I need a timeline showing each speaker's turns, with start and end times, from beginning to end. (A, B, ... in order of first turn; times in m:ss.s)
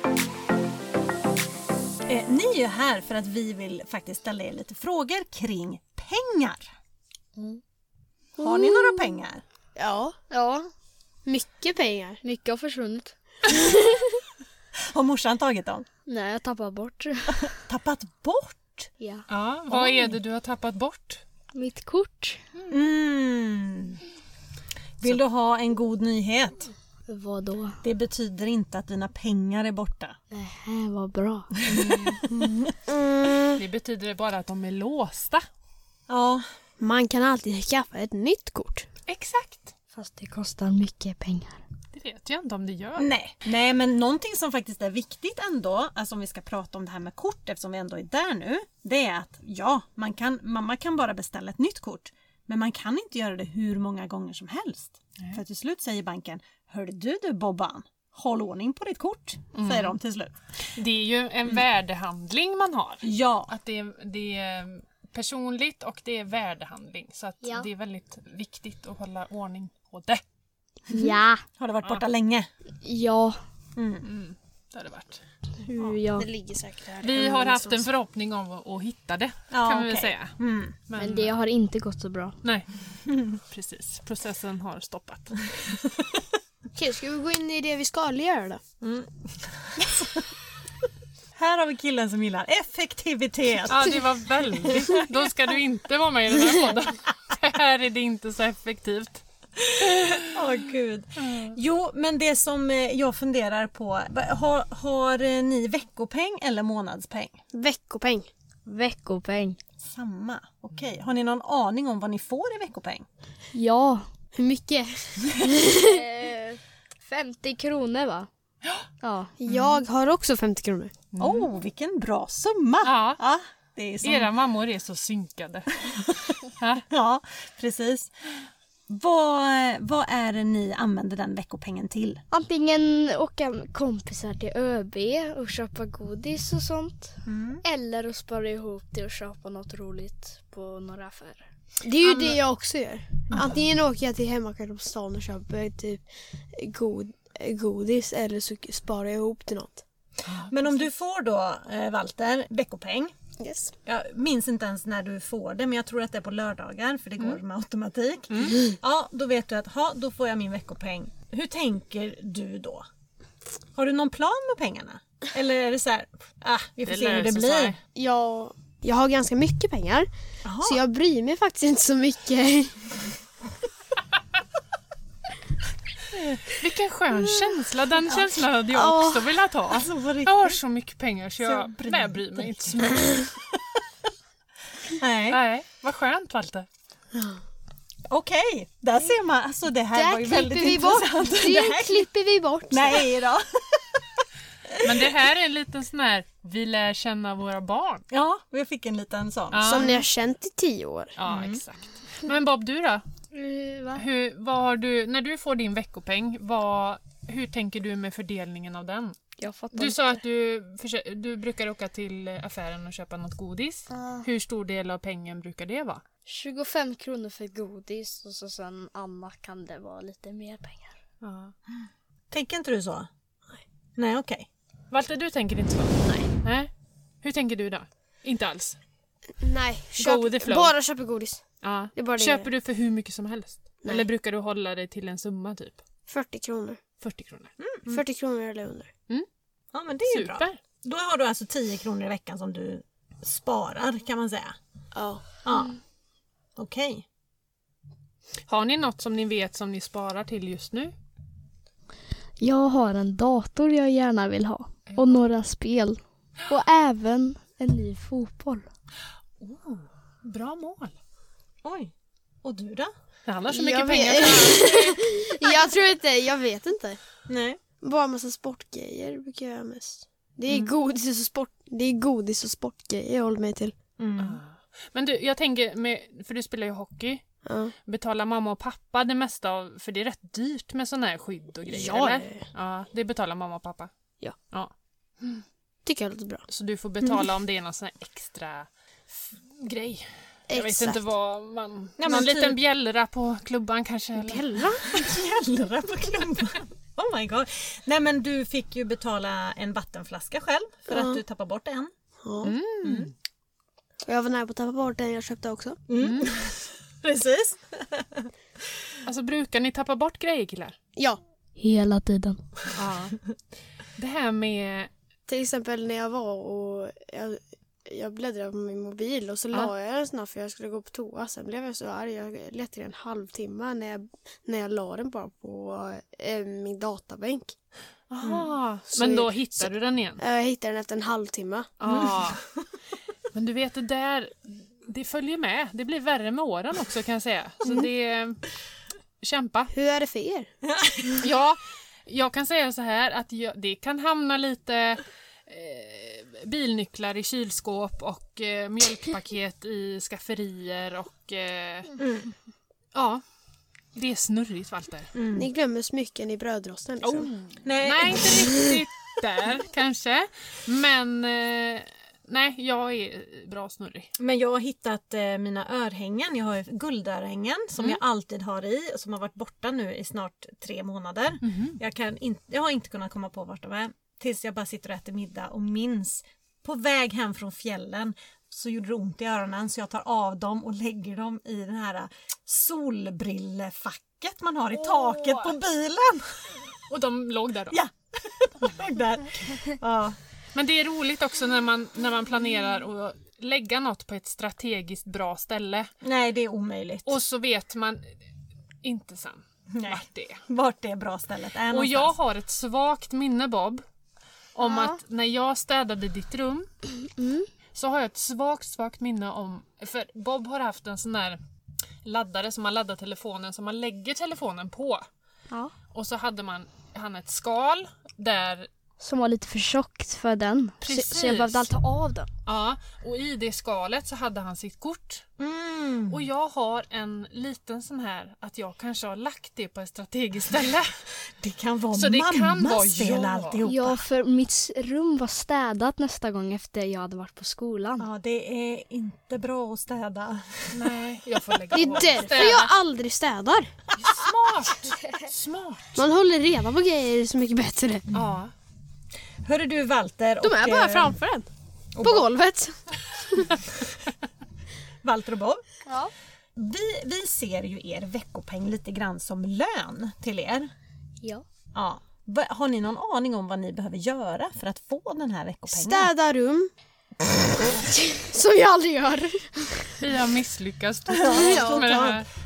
0:02.1-0:06.7 A
0:07.4-0:07.6 B
0:08.4-0:09.4 A
0:08.4-0:09.1 B
0:09.8-0:10.2 C
0:10.3-0:10.7 B
0:11.2-0:12.2 C
0:12.2-0:14.2 B
0:14.9-0:15.8 A
0:16.0-0:17.5 B
0:17.4-0:18.9 A
0:19.0-0:19.2 B
0:19.3-0:21.2 D
0:19.7-0:20.2 A
0:21.5-0:22.4 B
0:22.7-0:24.0 A
0:25.0-0:26.7 A
0:27.1-0:27.8 B
0:27.8-0:30.2 A
0:30.3-0:31.9 B
0:31.7-0:32.2 D
0:32.4-0:33.6 C
0:33.5-0:35.4 D
0:36.1-0:36.4 A
0:36.8-0:38.8 C
0:39.1-0:39.7 D
0:39.9-0:41.6 B
0:41.9-0:43.1 D
0:43.0-1:00.3 A
0:59.5-0:59.9 D
1:00.7-1:10.2 D
1:03.0-1:03.5 A
1:10.9-1:11.4 B
1:10.9-1:12.5 A
1:12.8-1:13.4 B
1:13.8-1:14.0 A
1:14.0-1:15.2 D
1:15.6-1:16.3 B
1:16.1-1:17.8 C
1:17.0-1:20.3 D
1:19.5-1:20.8 A
1:20.9-1:21.3 D
1:21.0-1:22.4 B
1:22.4-1:22.7 D
1:23.1-1:23.3 A
1:23.3-1:25.4 D
1:26.7-1:28.6 C
1:28.8-1:30.4 A
1:31.3-1:34.0 A
1:33.6-1:39.2 D
1:34.6-1:35.0 A
1:39.6-1:47.4 A
1:39.9-1:40.3 D
1:41.2-1:41.6 D
1:47.5-1:48.3 C
1:48.6-1:49.6 B
1:49.8-1:53.0 A
1:53.5-1:54.0 B
1:54.3-1:56.0 C
1:55.7-1:58.3 B
1:59.0-1:59.3 B
1:59.4-2:00.9 C
1:59.5-1:59.8 A
2:01.1-2:01.5 D
2:01.2-2:04.3 A
2:02.8-2:03.2 D
2:04.0-2:06.0 D
2:05.8-2:06.4 A
2:06.6-2:06.8 D
2:06.9-2:08.1 A
2:08.9-2:12.2 A
2:12.3-2:21.4 B
2:17.2-2:17.6 A
2:21.8-2:29.8 C
2:22.0-2:22.4 A
2:23.3-2:23.6 A
2:30.2-2:30.5 D
2:30.5-2:33.1 A
2:33.4-2:33.7 C
2:33.8-2:42.8 A
2:38.3-2:38.6 D
2:43.7-2:47.8 A
2:46.8-2:47.8 D
2:47.9-2:50.1 C
2:50.4-2:50.8 A
2:50.6-2:52.9 C
2:56.1-2:56.4 A
2:56.6-3:03.2 D
2:58.1-2:59.3 C
2:59.7-3:00.6 A
3:01.4-3:02.8 A
3:03.5-3:03.8 A
3:04.8-3:05.4 A
3:05.3-3:06.7 D
3:07.1-3:07.4 C
3:08.1-3:12.1 A
3:10.0-3:13.0 C
3:10.5-3:12.1 B
3:12.7-3:15.1 A
3:14.8-3:18.0 D
3:18.1-3:19.9 A
3:19.5-3:20.0 D
3:19.6-3:21.1 C
3:21.2-3:23.0 D
3:21.2-3:21.6 A
3:23.3-3:24.0 B
3:23.9-3:29.2 D
3:29.4-3:30.2 B
3:29.7-3:36.0 D
3:33.9-3:34.3 B
3:36.2-3:41.0 B
3:41.2-3:41.5 D
3:42.3-3:43.1 A
3:44.0-3:44.5 A
3:44.9-3:46.7 D
3:47.2-3:48.8 D
3:49.4-3:51.4 C
3:49.9-3:50.7 D
3:51.6-3:55.8 D
3:51.9-3:52.5 C
3:56.1-3:56.8 C
3:57.0-3:57.5 D
3:57.6-3:58.0 A
3:57.9-3:58.9 C
3:59.7-4:04.6 A
4:00.0-4:00.6 D
4:04.9-4:05.2 C
4:05.4-4:05.7 A
4:06.6-4:07.0 A
4:08.5-4:10.9 D
4:12.4-4:18.7 B
4:14.9-4:15.2 D
4:19.4-4:21.0 D
4:21.6-4:22.9 A
4:23.2-4:25.1 D
4:23.5-4:27.0 C
4:27.3-4:27.6 A
4:27.8-4:33.7 C
4:34.0-4:34.4 A
4:34.2-4:37.2 D
4:37.4-4:37.7 C
4:37.8-4:43.9 D
4:41.6-4:42.4 C
4:44.5-4:45.4 D
4:45.8-4:46.5 C
4:46.5-4:54.8 D
4:50.5-4:51.0 C
4:52.0-4:52.6 A
4:54.2-4:54.8 C
4:54.8-5:01.9 A
5:00.9-5:01.2 C
5:02.2-5:02.6 C
5:02.4-5:03.1 D
5:02.8-5:03.1 A
5:04.0-5:05.8 C
5:05.9-5:08.3 A
5:06.0-5:06.3 D
5:09.0-5:10.8 D
5:11.6-5:12.4 B
5:12.7-5:13.2 D
5:13.9-5:14.9 D
5:15.3-5:27.5 C
5:28.1-5:30.2 D
5:28.2-5:28.5 A
5:28.9-5:31.7 C
5:31.8-5:32.4 D
5:31.9-5:32.6 A
5:33.3-5:38.4 D
5:39.2-5:39.7 D
5:39.7-5:40.5 C
5:40.7-5:41.2 A
5:41.2-5:51.9 D
5:52.0-5:52.3 A
5:52.9-5:53.2 D
5:53.9-5:55.1 D
5:55.1-5:55.5 A
5:55.3-5:57.3 C
5:57.0-6:04.1 D
5:57.6-5:58.5 A
6:04.2-6:26.6 A
6:11.4-6:11.8 D
6:24.8-6:25.5 D
6:26.9-6:27.8 D
6:27.7-6:30.2 A
6:30.5-6:35.9 D
6:36.0-6:37.1 A
6:37.0-6:38.1 D
6:38.8-6:40.4 D
6:39.7-6:42.1 A
6:41.7-6:43.8 D
6:44.5-6:46.7 D
6:44.6-6:44.9 B
6:47.1-6:47.5 B
6:47.7-6:51.4 D
6:52.0-6:55.0 D
6:55.9-6:58.7 D
6:59.0-7:02.3 B
7:00.8-7:01.7 D
7:02.4-7:05.2 D
7:05.4-7:06.2 A
7:06.1-7:11.0 D
7:11.4-7:14.0 A
7:11.9-7:13.6 D
7:13.6-7:18.1 B
7:18.0-7:20.9 A
7:20.7-7:22.7 D
7:21.7-7:23.7 C
7:24.0-7:26.0 D
7:26.0-7:28.0 C
7:28.1-7:28.5 D
7:29.4-7:31.2 A
7:30.4-7:31.5 C
7:31.9-7:32.3 A
7:32.0-7:33.5 C
7:35.0-7:35.6 A
7:35.8-7:36.1 B
7:36.6-7:40.7 A
7:41.7-7:46.1 A
7:45.7-7:46.7 C
7:47.6-7:50.0 C
7:50.0-7:52.2 D
7:51.1-7:52.2 A
7:51.2-7:52.1 C